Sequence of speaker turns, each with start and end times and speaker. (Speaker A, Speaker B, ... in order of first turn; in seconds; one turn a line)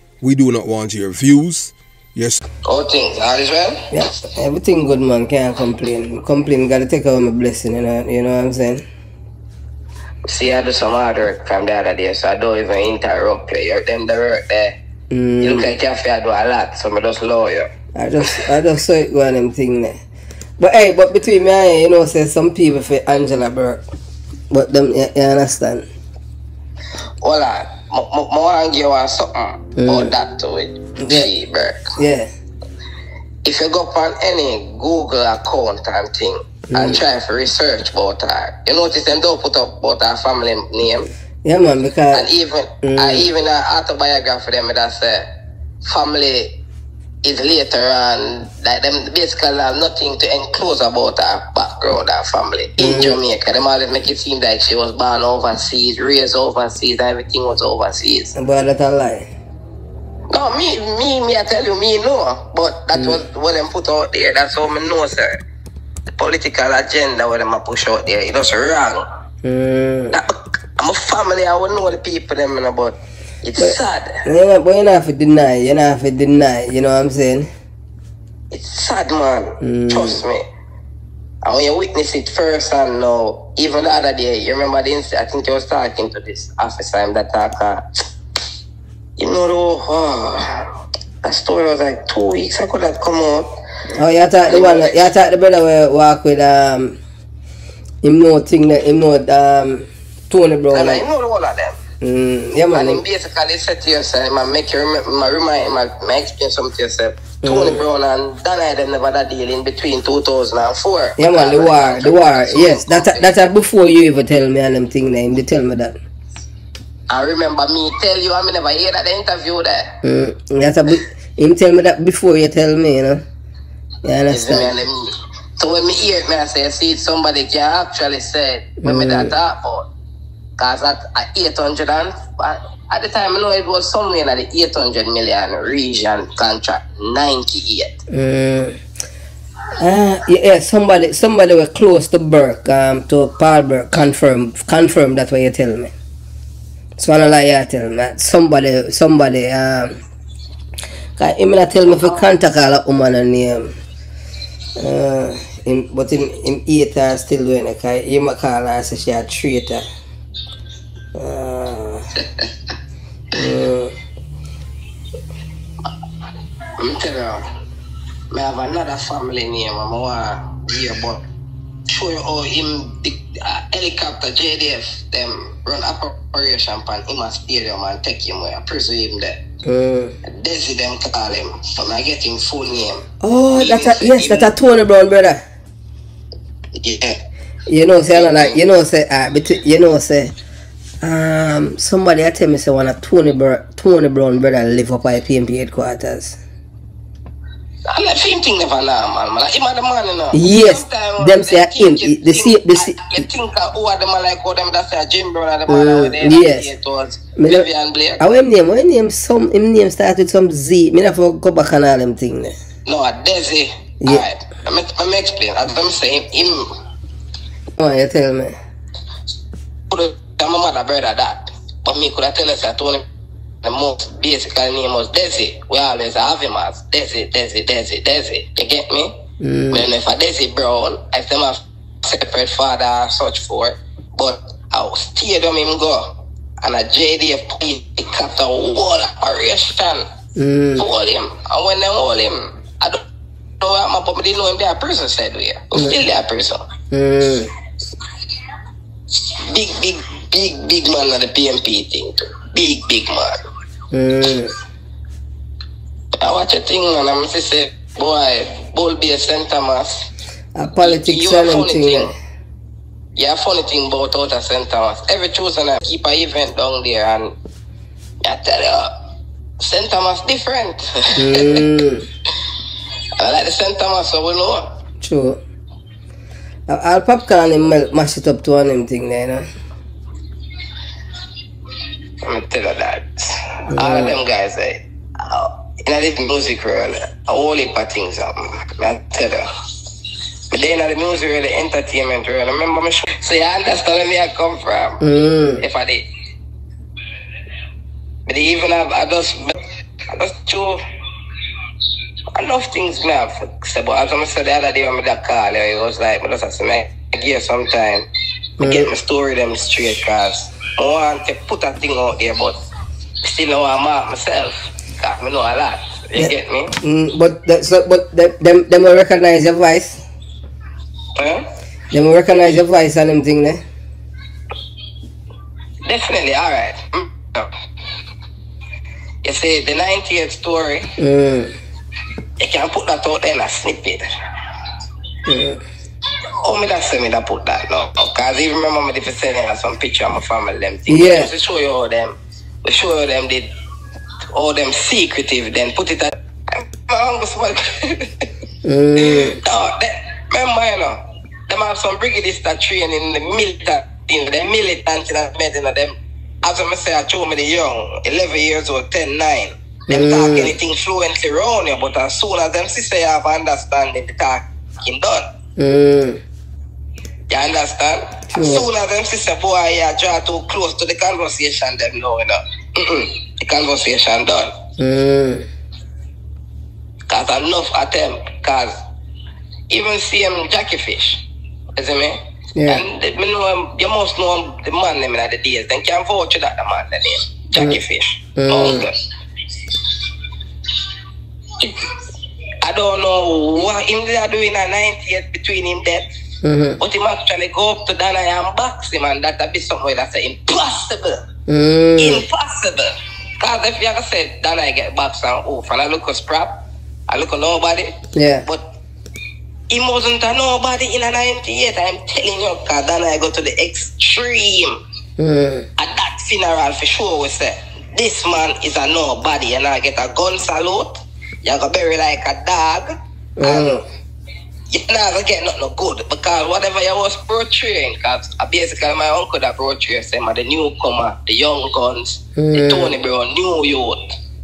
Speaker A: 0.2-2.4
Speaker B: 2.6-3.9
Speaker C: 3.9-8.8
Speaker B: 10.3-14.8
Speaker C: 15.1-15.7
Speaker B: 15.4-17.7
Speaker C: 18.0-20.0
Speaker C: 20.6-23.9
Speaker C: 24.5-25.9
Speaker B: 27.2-31.9
Speaker C: 29.8-30.1
Speaker C: 31.0-31.3
Speaker C: 32.0-32.3
Speaker B: 33.4-41.1
Speaker C: 36.7-37.0
Speaker C: 41.4-42.3
Speaker B: 42.1-45.3
Speaker C: 42.8-43.3
Speaker B: 45.8-46.6
Speaker B: 47.2-58.3
Speaker C: 52.8-53.2
Speaker C: 58.4-59.3
Speaker B: 60.3-65.4
Speaker C: 62.9-63.2
Speaker B: 66.1-69.1
Speaker C: 69.4-70.2
Speaker B: 70.1-74.2
Speaker C: 73.6-77.5
Speaker B: 78.5-80.4
Speaker C: 79.6-80.2
Speaker B: 81.4-87.9
Speaker B: 89.2-90.7
Speaker B: 91.2-93.5
Speaker C: 93.9-97.0
Speaker B: 94.5-95.1
Speaker C: 98.0-101.0
Speaker B: 100.7-101.8
Speaker C: 102.0-103.0
Speaker B: 102.7-113.3
Speaker C: 107.4-107.8
Speaker C: 111.2-116.0
Speaker B: 117.1-120.0
Speaker C: 120.0-123.2
Speaker C: 124.0-124.7
Speaker B: 124.3-129.9
Speaker C: 128.8-129.3
Speaker B: 130.6-138.0
Speaker C: 138.1-138.8
Speaker C: 139.8-145.9
Speaker C: 147.0-150.0
Speaker C: 151.2-153.8
Speaker C: 154.8-159.9
Speaker C: 161.2-162.1
Speaker B: 162.2-162.5
Speaker C: 163.3-163.9
Speaker B: 166.8-167.5
Speaker B: 168.3-171.2
Speaker B: 171.9-179.4
Speaker C: 179.7-180.2
Speaker B: 180.2-184.5
Speaker C: 183.2-185.4
Speaker B: 186.8-187.2
Speaker C: 187.7-190.3
Speaker B: 188.1-188.6
Speaker C: 191.0-196.4
Speaker B: 197.9-208.2
Speaker C: 200.3-203.3
Speaker C: 205.7-206.7
Speaker C: 207.4-207.7
Speaker C: 208.2-212.6
Speaker B: 212.9-216.7
Speaker C: 217.8-218.6
Speaker B: 219.9-223.1
Speaker B: 223.6-229.1
Speaker C: 229.4-229.9
Speaker B: 229.7-240.1
Speaker C: 240.4-240.8
Speaker B: 240.8-243.0
Speaker B: 243.6-246.7
Speaker C: 246.9-247.5
Speaker B: 249.1-253.4
Speaker C: 253.9-254.6
Speaker B: 256.2-260.1
Speaker C: 260.6-262.1
Speaker B: 260.8-262.1
Speaker B: 263.2-267.3
Speaker B: 268.2-269.1
Speaker B: 269.6-271.6
Speaker C: 271.2-272.1
Speaker B: 273.2-274.8
Speaker C: 275.0-275.4
Speaker C: 276.7-279.5
Speaker B: 282.2-289.5
Speaker C: 283.7-284.2
Speaker B: 290.5-295.0
Speaker C: 295.0-295.6
Speaker B: 295.6-296.1
Speaker B: 298.3-299.6
Speaker B: 300.1-300.8
Speaker B: 302.3-308.1
Speaker B: 308.6-312.6
Speaker C: 308.6-308.9
Speaker B: 313.2-316.8
Speaker C: 316.2-320.0
Speaker B: 321.2-321.5
Speaker C: 321.9-323.6
Speaker B: 325.9-327.5
Speaker B: 329.2-330.9
Speaker C: 331.0-331.6
Speaker B: 332.4-334.0
Speaker C: 335.3-335.6
Speaker B: 336.4-343.5
Speaker C: 340.9-341.3
Speaker B: 344.3-348.3
Speaker C: 348.6-349.4
Speaker B: 349.0-365.3
Speaker C: 359.9-360.5
Speaker C: 365.6-366.2
Speaker B: 367.3-374.5
Speaker C: 368.3-368.7
Speaker C: 374.8-375.5
Speaker B: 377.1-378.8
Speaker B: 379.7-381.2
Speaker B: 381.8-389.0
Speaker C: 382.6-382.8
Speaker C: 387.6-387.8
Speaker C: 388.4-388.9
Speaker B: 391.6-391.9
Speaker B: 392.6-396.1
Speaker C: 396.4-396.8
Speaker B: 396.8-401.2
Speaker C: 401.5-402.2
Speaker B: 402.0-408.7
Speaker C: 408.1-408.4
Speaker B: 409.7-414.8
Speaker C: 415.2-415.7
Speaker B: 415.8-423.8
Speaker C: 423.4-423.9
Speaker B: 424.7-434.2
Speaker C: 432.4-433.0